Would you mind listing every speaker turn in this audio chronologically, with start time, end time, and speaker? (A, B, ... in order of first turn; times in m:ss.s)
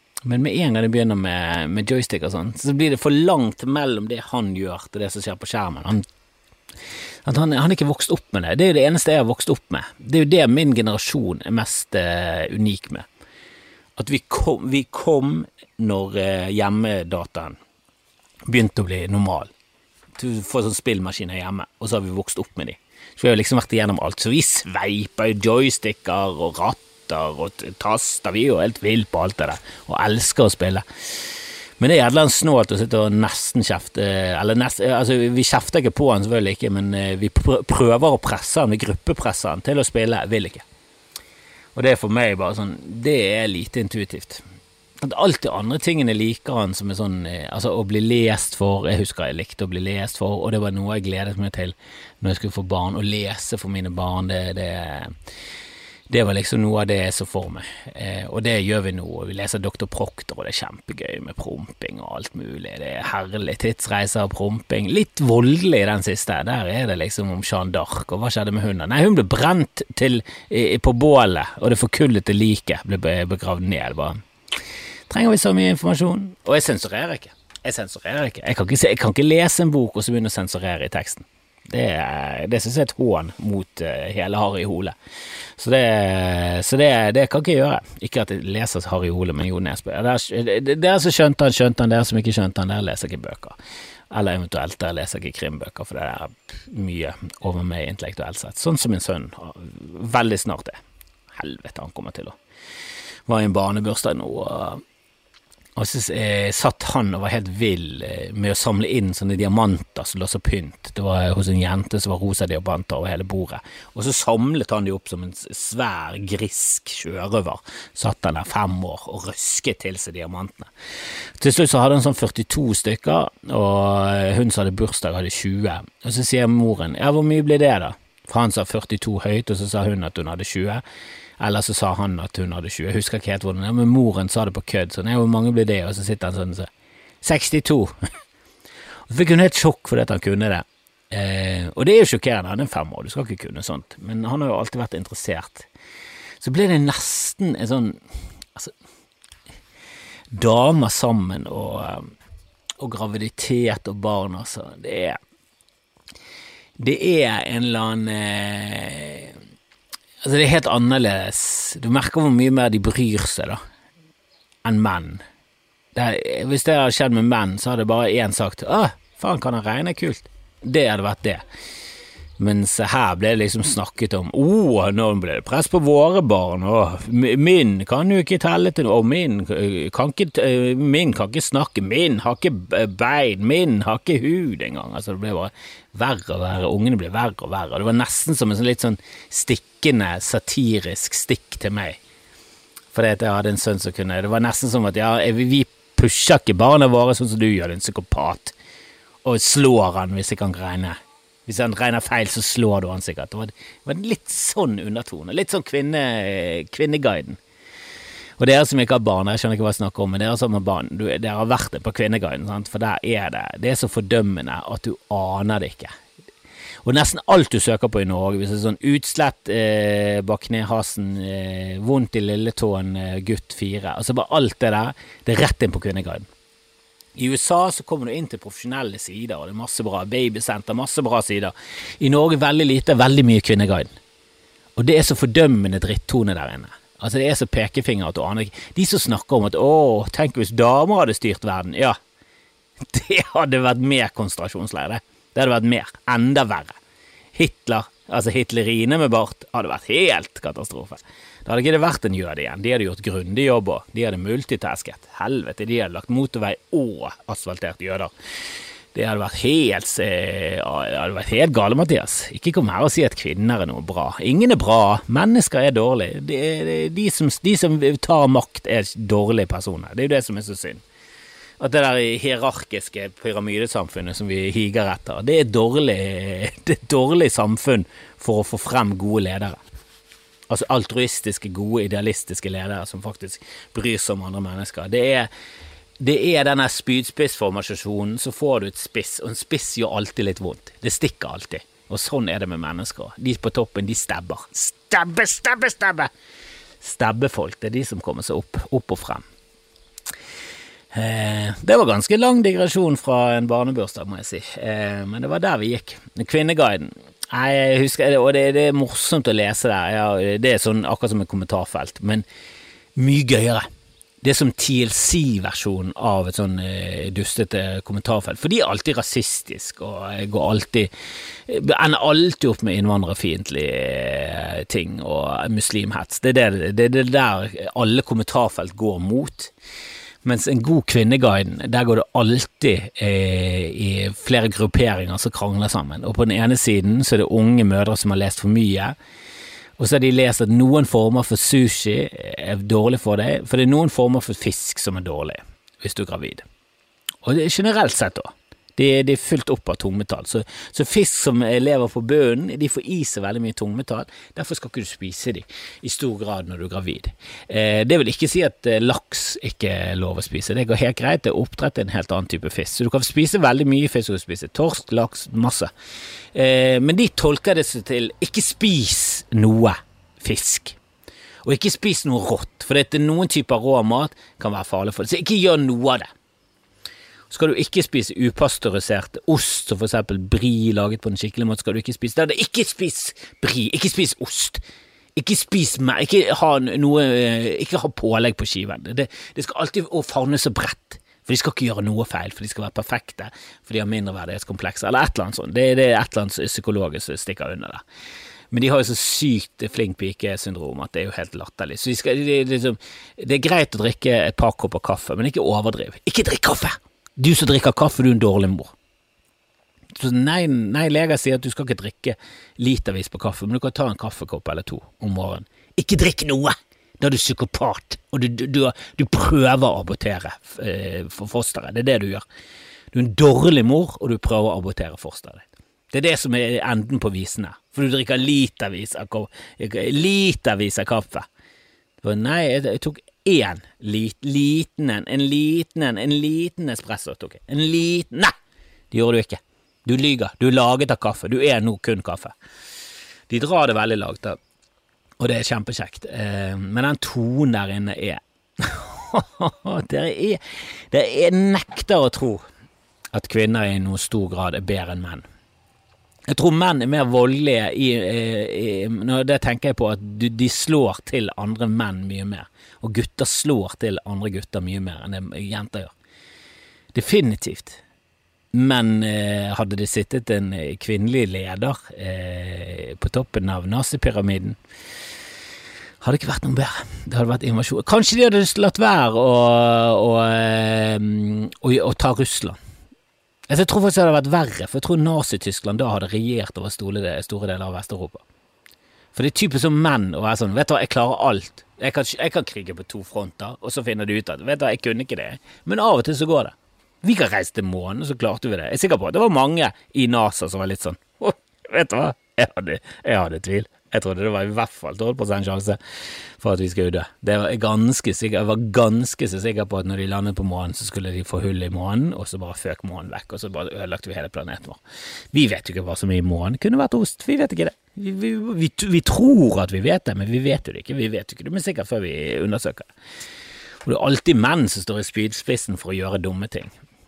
0:00.2-0:06.0 A
0:07.2-0:13.0 A
0:14.0-0:17.6 A
0:18.5-0:19.5 A
0:20.2-0:30.8 A
0:31.8-0:40.6 A
0:41.7-0:44.4 A
0:45.0-0:55.1 A
0:56.1-1:14.2 A
1:15.1-1:24.9 A
1:25.6-1:33.6 A
1:34.1-1:40.8 A
1:41.3-1:42.4 A
1:43.3-1:44.8 A
1:45.8-2:00.7 A
2:01.4-2:10.8 A
2:11.4-2:16.7 A
2:17.2-2:17.9 A
2:19.1-2:25.7 A
2:26.4-2:28.0 A
2:30.3-2:32.1 A
2:32.8-2:35.2 A
2:36.8-2:39.4 A
2:40.2-2:43.6 A
2:44.6-2:45.2 A
2:45.9-2:51.4 A
2:52.4-3:12.0 A
3:12.9-3:18.5 A
3:19.2-3:27.4 A
3:28.4-3:35.9 A
3:36.8-3:46.3 A
3:47.1-3:53.9 A
3:54.8-4:02.0 A
4:02.9-4:06.8 A
4:07.3-4:18.1 A
4:18.9-4:30.8 A
4:31.6-4:39.6 A
4:40.5-4:45.3 A
4:46.0-4:56.1 A
4:56.8-4:59.2 A
5:00.9-5:12.2 A
5:13.0-5:13.6 A
5:14.2-5:20.9 A
5:21.5-5:29.5 A
5:30.2-5:38.9 A
5:39.8-5:46.4 A
5:47.2-6:05.7 A
6:06.3-6:10.8 A
6:11.4-6:16.1 A
6:17.3-6:24.6 A
6:25.2-6:37.8 A
6:38.5-6:48.7 A
6:50.0-7:02.2 A
7:02.9-7:11.3 A
7:12.0-7:18.3 A
7:18.9-7:22.3 A
7:23.3-7:24.4 A
7:25.2-7:32.4 A
7:33.1-7:35.2 A
7:36.3-7:45.9 A
7:46.9-7:47.8 A
7:48.5-7:54.6 A
7:56.0-8:02.6 A
8:03.5-8:08.2 A
8:09.1-8:25.8 A
8:26.4-8:34.8 A
8:35.3-8:42.9 A
8:43.8-8:46.7 A